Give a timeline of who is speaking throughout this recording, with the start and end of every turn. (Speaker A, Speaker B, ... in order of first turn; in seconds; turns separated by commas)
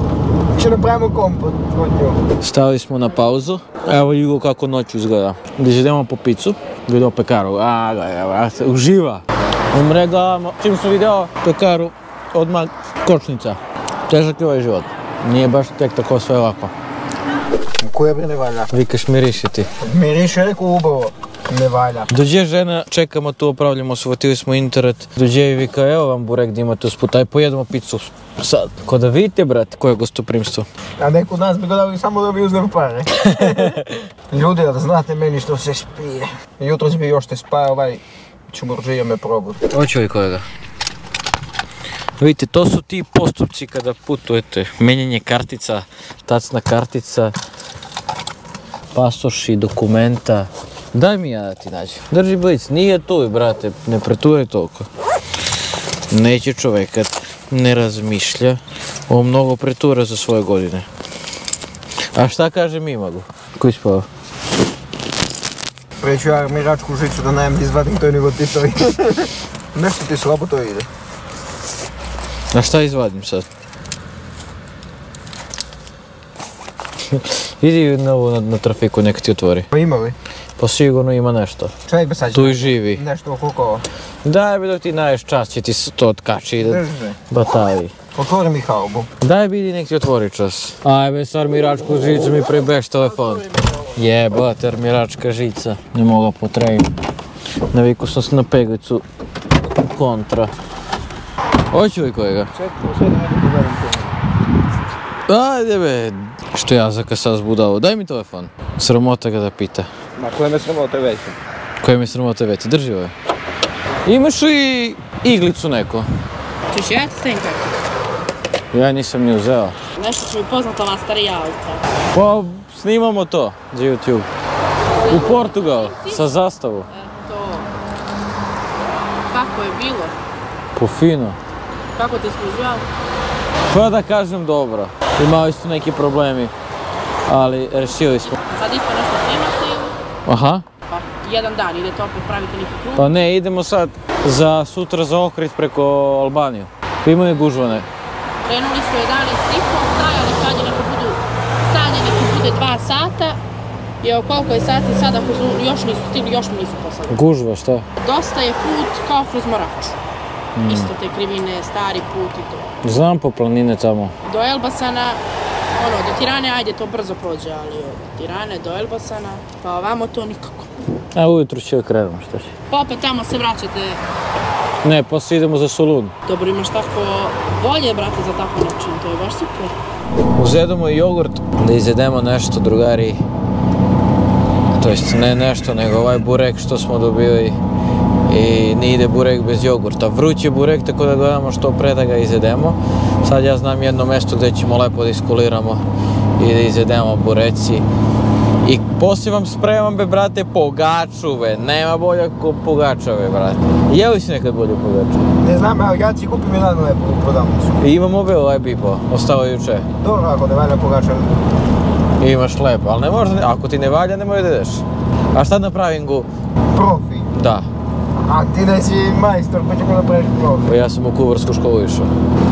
Speaker A: 0.5-2.2, Speaker B: 2.4-16.7, Speaker A: 17.8-18.7, Speaker B: 18.7-19.7, Speaker A: 19.8-22.1, Speaker B: 22.1-30.7, Speaker A: 31.0-39.6, Speaker B: 33.1-34.0, Speaker B: 39.7-40.5, Speaker B: 42.2-47.3, Speaker B: 48.9-54.9, Speaker B: 56.1-60.9, Speaker B: 62.1-64.1, Speaker A: 66.0-70.9, Speaker B: 72.5-73.5, Speaker B: 77.1-79.7, Speaker A: 79.7-80.2, Speaker B: 80.6-81.7, Speaker A: 81.9-83.8, Speaker B: 82.3-83.0, Speaker B: 84.2-87.9, Speaker A: 86.6-87.2, Speaker A: 88.1-89.1, Speaker B: 89.2-96.9, Speaker A: 93.2-93.8, Speaker B: 97.7-99.0, Speaker B: 99.8-100.5, Speaker B: 101.7-102.5, Speaker A: 102.5-104.2, Speaker B: 105.3-109.9, Speaker A: 110.2-111.4, Speaker B: 111.8-113.1, Speaker B: 114.0-116.1, Speaker C: 116.7-117.8, Speaker B: 118.7-119.8, Speaker C: 120.0-121.8, Speaker B: 122.1-124.3, Speaker C: 124.9-126.2, Speaker B: 125.1-126.9, Speaker C: 126.9-127.7, Speaker C: 129.3-130.1, Speaker B: 130.8-131.4, Speaker C: 131.9-132.8, Speaker B: 133.7-136.5, Speaker B: 137.3-138.4, Speaker C: 138.4-140.0, Speaker B: 140.2-140.6, Speaker C: 140.9-143.1, Speaker B: 142.9-147.9, Speaker C: 148.4-153.4, Speaker C: 154.0-157.2, Speaker B: 157.1-157.9, Speaker C: 158.0-159.9, Speaker B: 160.6-160.9, Speaker C: 160.7-162.7, Speaker B: 162.8-164.2, Speaker C: 164.2-165.2, Speaker C: 165.7-170.7, Speaker B: 171.1-172.5, Speaker C: 172.7-174.0, Speaker B: 174.8-176.1, Speaker C: 176.3-179.7, Speaker B: 180.4-183.2, Speaker B: 184.8-187.6, Speaker B: 188.3-195.8, Speaker B: 196.4-197.8, Speaker B: 198.6-205.2, Speaker A: 205.4-207.8, Speaker B: 207.8-209.9, Speaker A: 210.0-211.4, Speaker B: 212.2-216.3, Speaker A: 216.6-217.3, Speaker B: 217.3-217.7, Speaker A: 218.2-220.7, Speaker B: 220.6-222.1